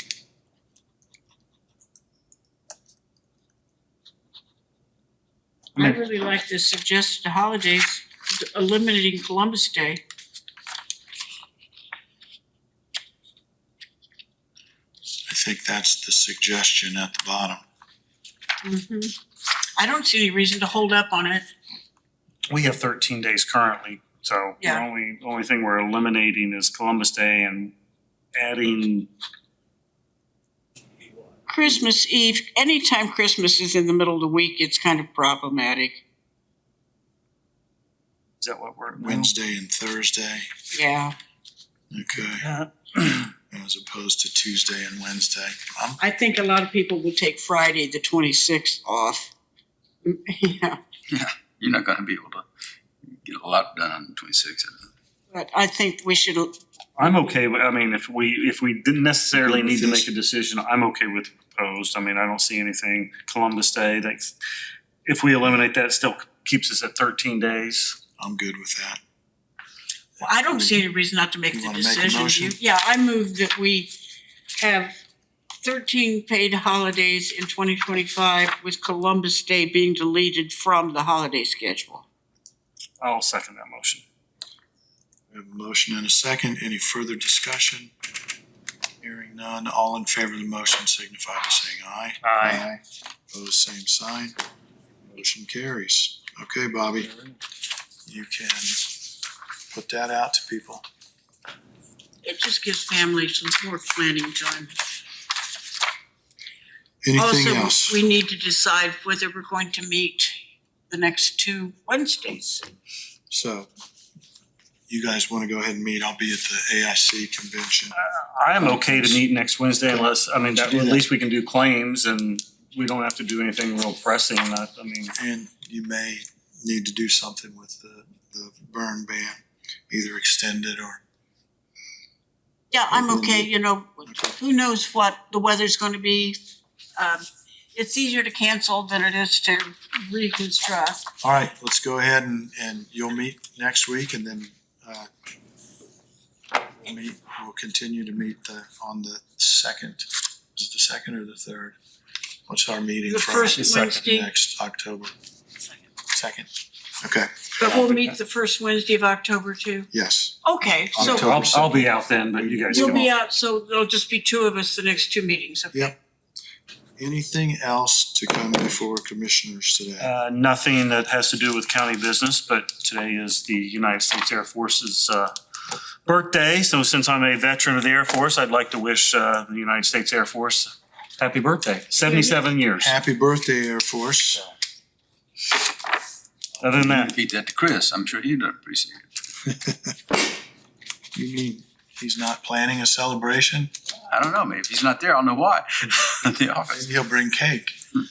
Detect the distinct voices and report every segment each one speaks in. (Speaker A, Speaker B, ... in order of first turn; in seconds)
Speaker A: 5.8-10.0, 18.6-19.1, 19.8-21.5, 31.5-36.0, 40.7-41.1, 46.0-49.3, 50.0-50.8, 55.3-56.5, 70.2-73.9, 74.6-75.0, 75.6-82.1, 102.2-104.7, 107.2-110.4, 110.9-112.7, 132.7-136.4, 137.0-141.0, 153.1-154.3, 157.6-159.9, 160.4-161.3, 162.7-165.9, 182.1-182.3
Speaker B: 15.3-17.6, 39.0-40.5, 41.9-42.5, 43.5-46.0, 59.3-60.1, 68.2-69.0, 70.2-70.8, 71.5-72.6, 85.3-87.9, 89.0-92.8, 93.3-94.4, 95.1-97.1, 98.1-98.8, 99.7-100.8, 107.0-108.0, 113.3-113.7, 114.9-118.0, 118.6-119.2, 119.9-121.0, 125.2-131.0, 132.9-133.5, 141.2-145.1, 146.8-151.8, 152.5-155.1, 156.1-156.5, 157.0-157.3, 159.9-160.4, 160.9-163.1, 167.0-170.1, 182.2-184.4, 189.5-189.9, 191.2-193.7, 196.7-197.8
Speaker C: 22.5-27.7, 28.4-29.1, 38.4-39.3, 42.4-43.3, 57.0-64.3, 65.0-68.0, 83.0-84.0, 92.2-92.7, 118.0-125.1, 153.5-154.0, 161.0-163.1, 170.0-175.3, 176.1-183.0, 186.6-187.2
Speaker D: 51.1-52.5, 53.1-54.8, 186.6-189.1, 194.0-196.8